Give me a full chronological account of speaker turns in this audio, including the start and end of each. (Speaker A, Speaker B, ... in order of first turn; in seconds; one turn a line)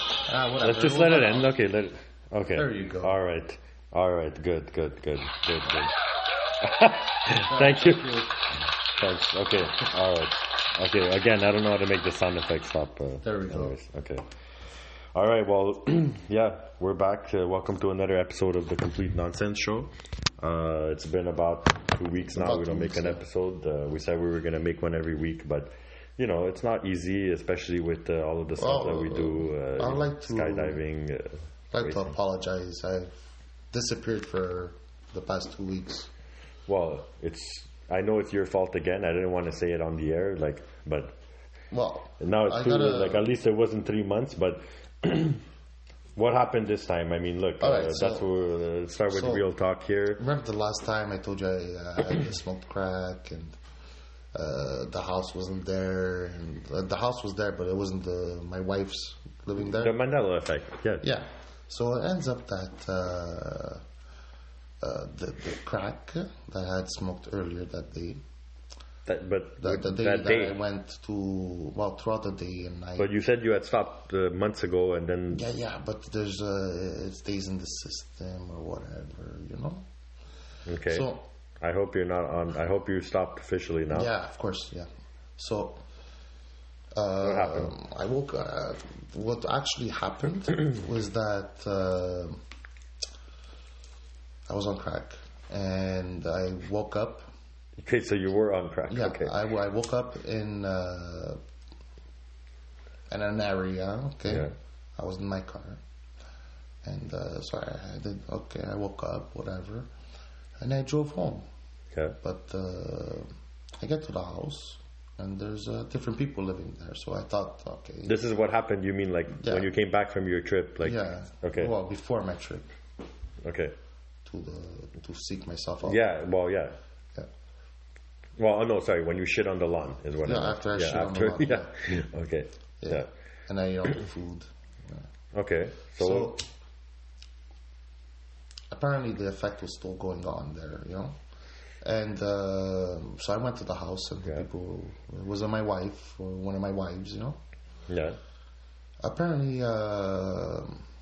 Speaker A: 0.2-1.5
Speaker B: 0.6-5.9
Speaker A: 2.5-3.1
Speaker B: 6.6-8.2
Speaker A: 7.5-8.3
Speaker B: 9.0-14.2
Speaker A: 13.2-13.8
Speaker B: 15.1-32.1
Speaker A: 22.3-23.2
Speaker A: 28.6-30.8
Speaker A: 31.7-33.1
Speaker A: 33.7-36.1
Speaker B: 36.7-41.1
Speaker A: 41.7-43.3
Speaker B: 42.2-45.4
Speaker B: 46.1-50.2
Speaker A: 47.6-48.3
Speaker A: 49.1-49.5
Speaker A: 50.2-53.6
Speaker A: 54.3-60.0
Speaker B: 59.6-61.0
Speaker A: 61.0-63.8
Speaker A: 64.8-68.2
Speaker B: 69.1-70.6
Speaker A: 69.6-73.1
Speaker B: 73.0-75.5
Speaker A: 75.3-79.9
Speaker B: 80.7-81.1
Speaker A: 80.9-81.2
Speaker B: 81.6-84.1
Speaker A: 83.9-85.8
Speaker A: 86.9-92.4
Speaker B: 87.2-87.7
Speaker A: 94.5-97.3
Speaker B: 97.8-99.3
Speaker A: 98.9-101.4
Speaker A: 103.1-105.8
Speaker B: 104.3-104.5
Speaker A: 106.8-109.9
Speaker A: 110.6-111.5
Speaker A: 112.2-118.1
Speaker B: 118.0-121.7
Speaker A: 119.4-119.7
Speaker A: 120.8-122.6
Speaker B: 123.4-123.8
Speaker A: 124.2-126.0
Speaker B: 125.8-126.8
Speaker B: 128.4-133.1
Speaker A: 130.2-131.7
Speaker A: 132.8-135.1
Speaker B: 135.3-136.3
Speaker A: 136.0-136.4
Speaker A: 138.7-141.2
Speaker A: 141.8-147.4
Speaker B: 147.9-148.2
Speaker A: 149.0-150.8